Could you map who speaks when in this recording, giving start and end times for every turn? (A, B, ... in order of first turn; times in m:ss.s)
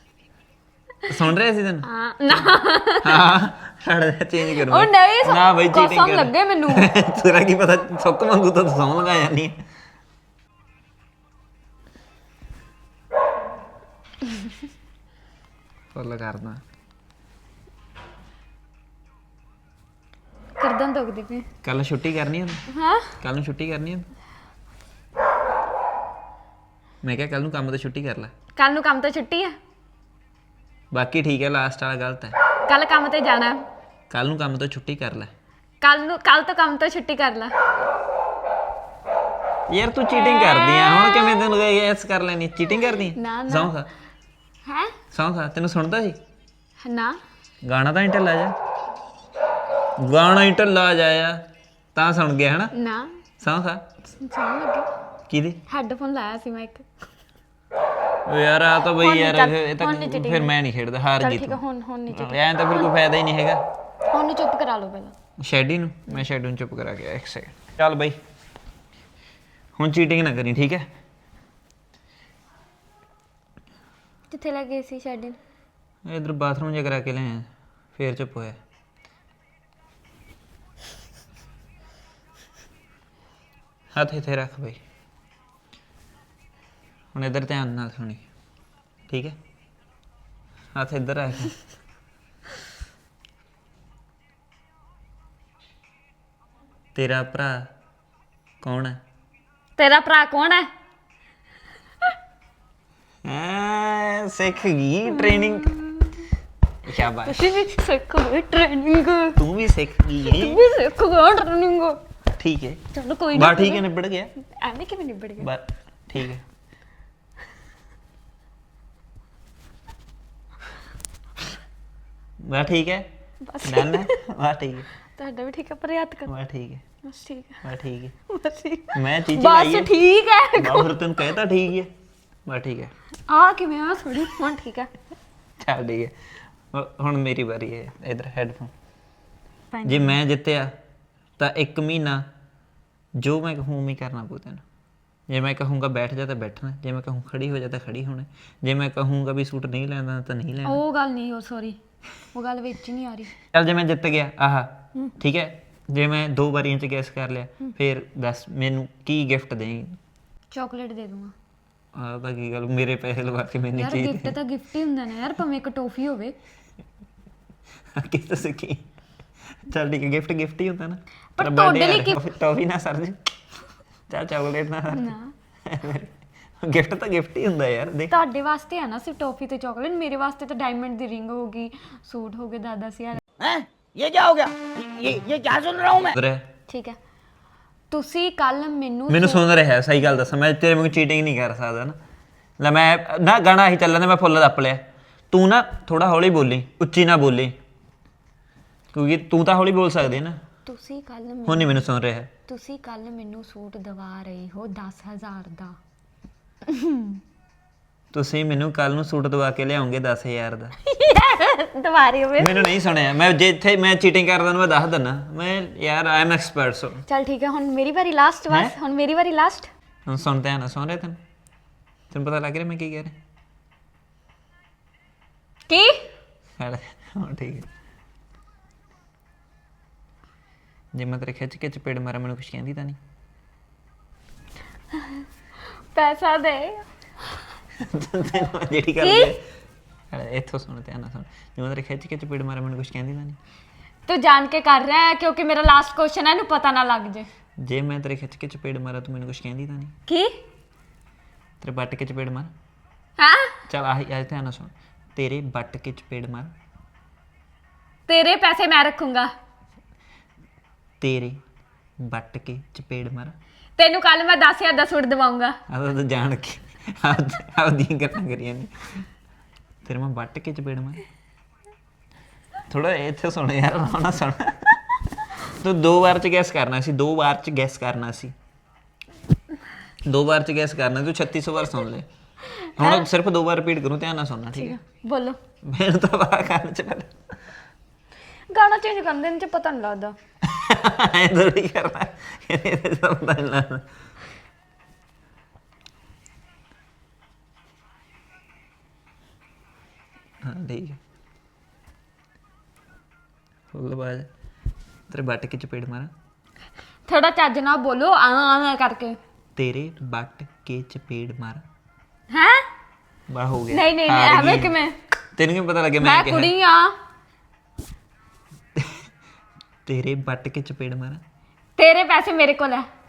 0:01.1-0:09.6 A
0:01.8-0:03.2 B
0:04.5-0:06.9 B
0:15.9-0:16.6 A
0:20.6-0:21.5 B
0:21.6-0:22.7 A
0:22.7-0:23.1 B
0:23.2-0:24.1 A
0:27.0-0:28.3 A
0:28.6-0:29.6 B
0:30.9-0:32.4 A
0:32.7-0:33.6 B
0:34.1-0:35.3 A
0:35.8-0:37.5 B
0:39.7-0:43.9 A
0:40.1-0:41.6 B
0:43.0-0:43.7 B
0:44.6-0:44.9 B
0:45.1-0:46.2 A
0:46.8-0:47.2 B
0:47.6-0:48.6 A
0:50.0-0:52.7 A
0:52.7-0:53.2 B
0:53.4-0:53.8 A
0:54.0-0:54.9 B
0:55.3-0:55.6 A
0:55.7-0:56.9 B
0:58.2-1:03.6 A
0:59.0-1:00.5 B
1:01.2-1:02.9 B
1:04.1-1:05.1 B
1:05.4-1:08.2 A
1:09.8-1:10.9 A
1:14.3-1:15.4 B
1:16.1-1:18.6 A
1:23.9-1:24.8 A
1:27.1-1:28.2 A
1:29.1-1:29.4 A
1:30.7-1:31.6 A
1:37.0-1:37.7 A
1:38.6-1:39.0 A
1:39.8-1:40.7 B
1:43.2-1:45.8 A
1:45.1-1:46.2 B
1:46.8-1:47.5 A
1:47.2-1:49.4 B
1:49.4-1:50.6 A
1:50.2-1:52.0 B
1:52.4-1:52.8 A
1:52.9-1:53.9 B
1:53.3-1:54.3 A
1:54.4-1:55.5 B
1:55.4-1:56.4 A
2:02.4-2:03.1 A
2:03.4-2:04.2 B
2:03.6-2:04.9 A
2:05.1-2:06.3 B
2:06.2-2:06.8 A
2:07.0-2:07.6 B
2:07.6-2:08.1 A
2:08.3-2:10.9 B
2:08.9-2:10.0 A
2:10.5-2:11.9 A
2:12.5-2:12.9 A
2:13.3-2:14.9 B
2:15.6-2:16.1 A
2:16.7-2:18.7 A
2:19.7-2:20.2 B
2:19.8-2:20.7 A
2:21.4-2:22.3 A
2:23.2-2:24.6 A
2:25.3-2:30.8 A
2:30.6-2:31.8 B
2:32.3-2:33.3 B
2:33.5-2:40.0 A
2:40.5-2:41.3 B
2:41.9-2:44.4 A
2:43.8-2:46.4 B
2:47.9-2:48.8 A
2:49.7-2:53.3 A
2:51.4-2:52.3 B
2:54.1-2:58.1 A
2:54.9-2:55.3 B
2:58.1-3:03.2 B
3:03.4-3:06.1 C
3:06.1-3:06.5 A
3:06.7-3:07.0 B
3:07.9-3:09.4 B
3:09.1-3:12.0 A
3:12.6-3:17.6 A
3:18.9-3:20.4 A
3:20.6-3:21.8 B
3:21.5-3:22.3 A
3:22.5-3:25.8 B
3:26.7-3:27.2 B
3:28.1-3:30.8 A
3:30.8-3:32.7 B
3:32.4-3:37.0 A
3:37.1-3:39.7 B
3:38.5-3:38.8 A
3:40.1-3:41.2 A
3:42.1-3:43.1 A
3:45.7-3:46.0 B
3:46.6-3:47.7 A
3:50.9-3:53.0 A
3:55.9-3:56.9 B
3:57.8-3:59.4 A
3:59.0-3:59.4 B
4:00.1-4:03.4 A
4:04.1-4:07.3 B
4:07.6-4:09.9 A
4:10.1-4:10.4 B
4:11.6-4:12.5 A
4:13.2-4:13.6 B
4:13.7-4:16.5 A
4:18.1-4:19.3 B
4:21.0-4:21.4 A
4:22.0-4:23.4 A
4:23.8-4:25.6 B
4:25.7-4:29.0 A
4:29.8-4:31.0 A
4:32.7-4:38.3 A
4:40.1-4:42.1 A
4:42.6-4:43.0 B
4:42.8-4:44.8 A
4:44.6-4:45.4 B
4:45.6-4:47.1 A
4:48.5-4:50.1 B
4:50.4-4:53.8 A
5:00.4-5:01.0 A
5:03.7-5:04.3 A
5:05.1-5:06.1 A
5:07.1-5:09.2 B
5:09.6-5:11.6 A
5:12.3-5:12.6 B
5:13.3-5:14.8 A
5:13.7-5:15.0 B
5:15.4-5:16.5 A
5:16.0-5:16.9 B
5:18.8-5:19.1 A
5:19.9-5:21.2 A
5:21.8-5:22.9 B